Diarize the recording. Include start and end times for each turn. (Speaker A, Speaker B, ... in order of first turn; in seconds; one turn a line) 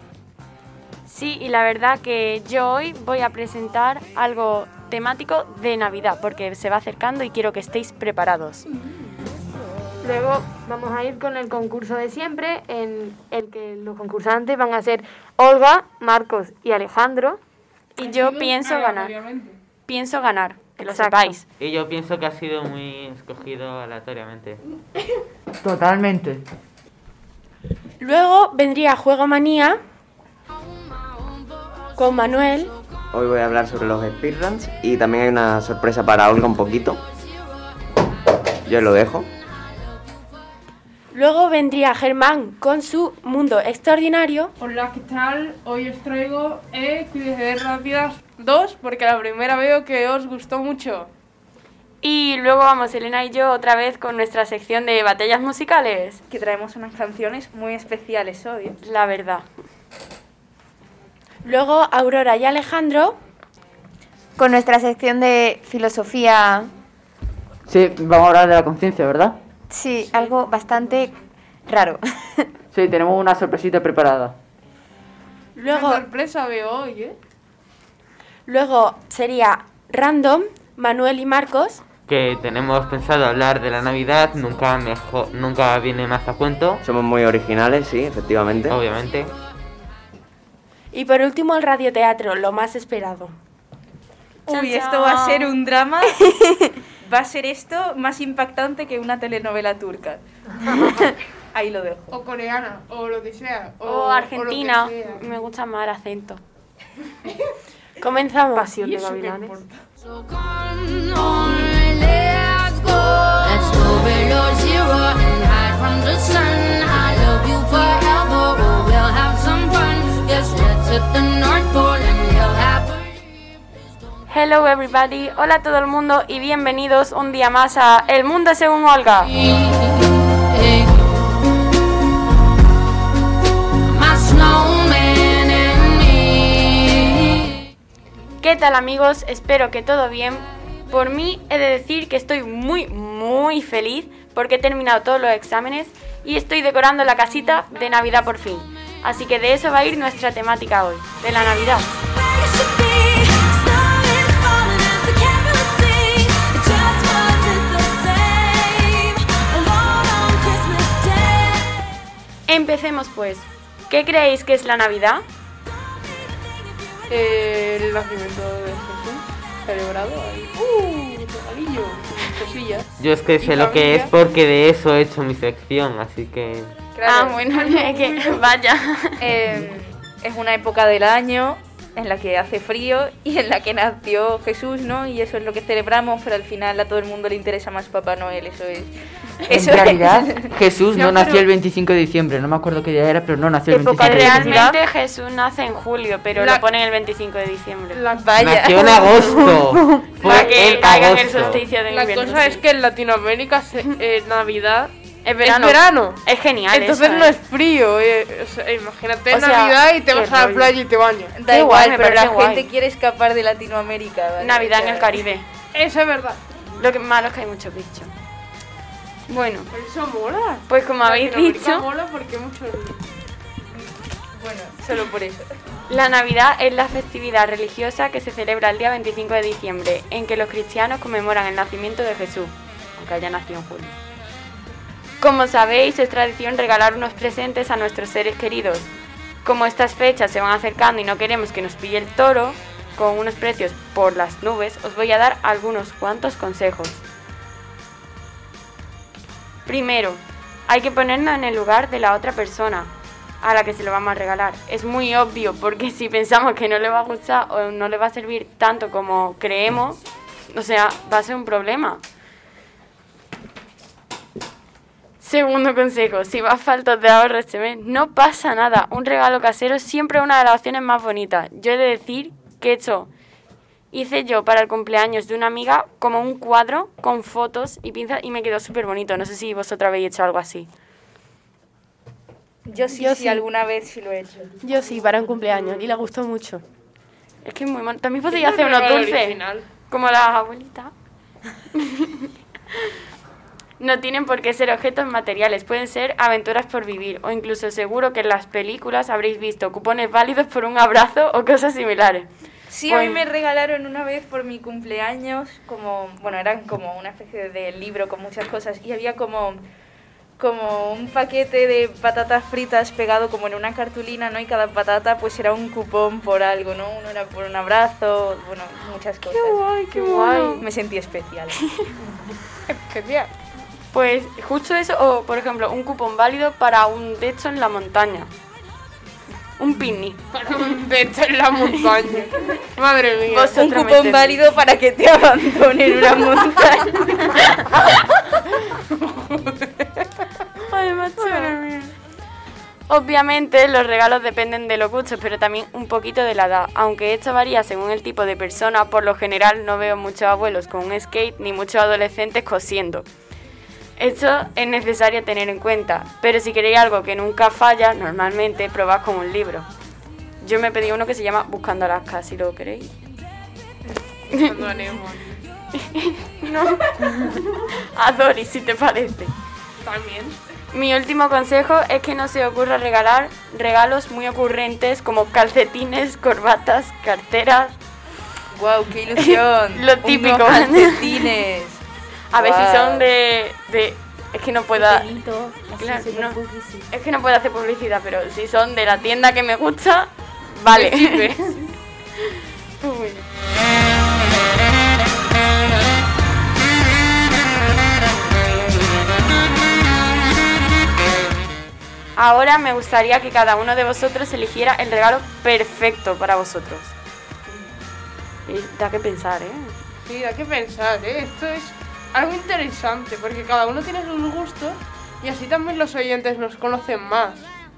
Speaker A: 1.1-8.6
Speaker B: 10.0-17.4
Speaker A: 18.0-19.1
Speaker C: 18.0-19.6
Speaker A: 19.9-21.4
Speaker B: 20.8-21.4
Speaker D: 21.6-24.6
Speaker E: 25.6-26.4
Speaker F: 28.0-29.8
Speaker F: 31.9-32.7
Speaker G: 33.1-37.0
Speaker G: 38.6-39.3
Speaker F: 41.1-44.5
Speaker C: 44.6-51.1
Speaker A: 52.0-56.2
Speaker H: 56.3-58.8
Speaker A: 58.8-59.4
Speaker F: 61.4-63.2
Speaker I: 64.4-66.7
Speaker E: 67.7-69.3
Speaker I: 69.7-71.1
Speaker I: 71.7-72.5
Speaker E: 72.7-74.3
Speaker F: 75.5-76.0
Speaker C: 75.6-77.2
Speaker F: 78.5-81.8
Speaker D: 82.1-86.8
Speaker G: 86.8-88.8
Speaker D: 88.7-89.3
Speaker F: 90.9-93.3
Speaker H: 94.5-96.2
Speaker F: 94.5-95.5
Speaker H: 97.0-102.0
Speaker C: 102.1-105.3
Speaker A: 103.8-106.4
Speaker F: 108.0-108.7
Speaker B: 108.5-109.6
Speaker C: 108.8-109.7
Speaker J: 110.5-123.1
Speaker A: 124.3-129.3
Speaker F: 134.0-135.0
Speaker A: 138.4-152.0
Speaker J: 152.2-161.7
Speaker A: 162.5-165.2
Speaker C: 167.1-172.9
Speaker D: 173.0-176.7
Speaker C: 173.4-174.1
Speaker H: 176.9-177.5
Speaker A: 177.0-179.2
Speaker C: 177.5-178.4
Speaker H: 179.2-190.5
Speaker E: 189.5-194.7
Speaker C: 190.9-191.4
Speaker B: 193.7-194.8
Speaker A: 194.0-198.0
Speaker C: 196.3-196.7
Speaker C: 197.9-198.3
Speaker H: 198.1-199.6
Speaker D: 198.4-201.6
Speaker A: 200.2-202.6
Speaker C: 200.3-200.8
Speaker C: 201.9-206.2
Speaker A: 205.2-207.4
Speaker C: 206.7-211.4
Speaker A: 209.3-209.8
Speaker B: 210.1-210.7
Speaker H: 211.3-215.2
Speaker A: 211.5-212.7
Speaker A: 214.4-215.4
Speaker C: 215.7-216.4
Speaker A: 216.8-218.1
Speaker A: 219.3-219.7
Speaker C: 219.7-223.0
Speaker A: 220.7-221.8
Speaker H: 224.3-225.5
Speaker A: 225.9-233.9
Speaker A: 235.2-238.9
Speaker A: 239.4-247.0
Speaker A: 249.7-260.0
Speaker A: 260.5-262.0
Speaker A: 265.2-273.1
Speaker A: 273.9-280.7
Speaker H: 282.7-284.6
Speaker F: 282.9-283.4
Speaker F: 284.6-286.6
Speaker A: 287.4-290.9
Speaker C: 288.3-289.6
Speaker A: 291.7-292.3
Speaker A: 293.8-302.3
Speaker H: 302.7-309.6
Speaker A: 302.9-303.2
Speaker H: 310.4-319.6
Speaker C: 319.3-320.6
Speaker B: 319.9-320.6
Speaker H: 320.6-321.6
Speaker C: 322.7-323.3
Speaker A: 323.9-328.3
Speaker A: 329.6-330.2
Speaker C: 330.3-333.6
Speaker A: 333.3-334.4
Speaker H: 333.5-337.3
Speaker C: 338.7-340.0
Speaker A: 340.7-341.6
Speaker C: 341.2-341.9
Speaker A: 342.9-353.1
Speaker A: 354.0-359.7
Speaker A: 360.4-362.9
Speaker A: 364.3-364.8
Speaker C: 364.3-365.4
Speaker A: 365.7-369.3
Speaker C: 369.8-370.4
Speaker A: 370.7-377.7
Speaker H: 378.5-381.8
Speaker A: 379.2-381.3
Speaker A: 382.3-385.1
Speaker H: 382.3-383.1
Speaker F: 384.7-386.9
Speaker A: 385.8-391.5
Speaker C: 390.7-391.7
Speaker A: 392.8-393.2
Speaker A: 402.1-406.9
Speaker A: 408.5-409.7
Speaker C: 410.0-417.5